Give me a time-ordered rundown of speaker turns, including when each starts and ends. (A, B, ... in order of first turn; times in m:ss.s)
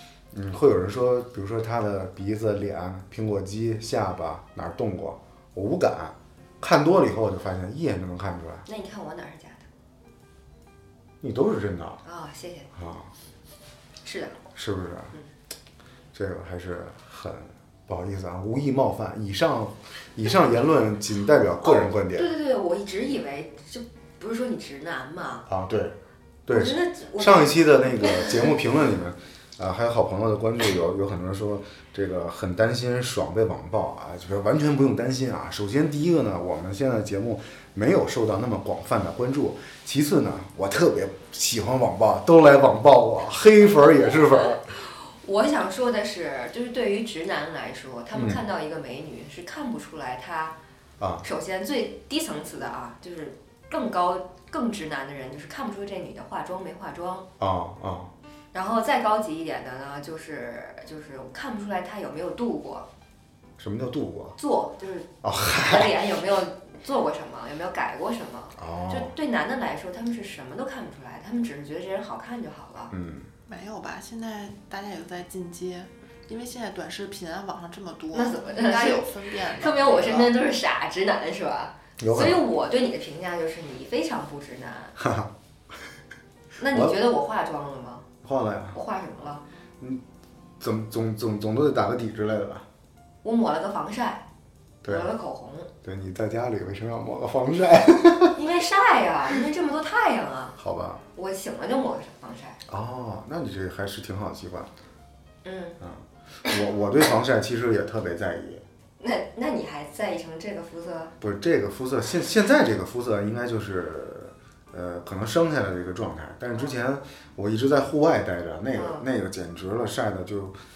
0:00.3-0:08.6 A
0:08.7-0:09.7 B
0:11.2-0:12.0 A
0:12.0-0:12.7 B
0:12.8-0:13.1 A
0:14.0-0:14.4 B
0:14.6-0:15.1 A
0:16.1-0:22.3 A
0:21.6-0:25.5 B
0:25.5-0:44.6 A
0:26.5-0:28.5 B
0:44.4-0:50.6 B
0:48.1-0:48.4 A
0:51.0-0:51.2 A
0:51.2-0:57.3 B
0:57.4-0:58.1 A
0:58.5-1:02.9 B
1:03.6-1:04.4 A
1:04.4-1:12.9 B
1:05.2-1:05.9 A
1:08.6-1:09.1 A
1:12.9-1:13.3 A
1:13.5-1:20.3 C
1:18.1-1:25.0 B
1:22.0-1:22.4 A
1:25.0-1:25.3 A
1:26.6-1:28.1 B
1:26.7-1:27.0 A
1:28.2-1:28.8 A
1:28.7-1:29.4 B
1:30.6-1:32.7 A
1:33.2-1:34.3 B
1:34.8-1:35.1 A
1:34.9-1:35.7 B
1:35.8-1:38.4 A
1:38.4-1:40.6 B
1:40.6-1:41.0 A
1:41.1-1:42.6 B
1:42.7-1:44.7 A
1:45.4-1:45.8 B
1:45.8-1:48.6 A
1:49.0-1:51.2 B
1:51.2-2:00.6 A
1:58.8-1:59.0 B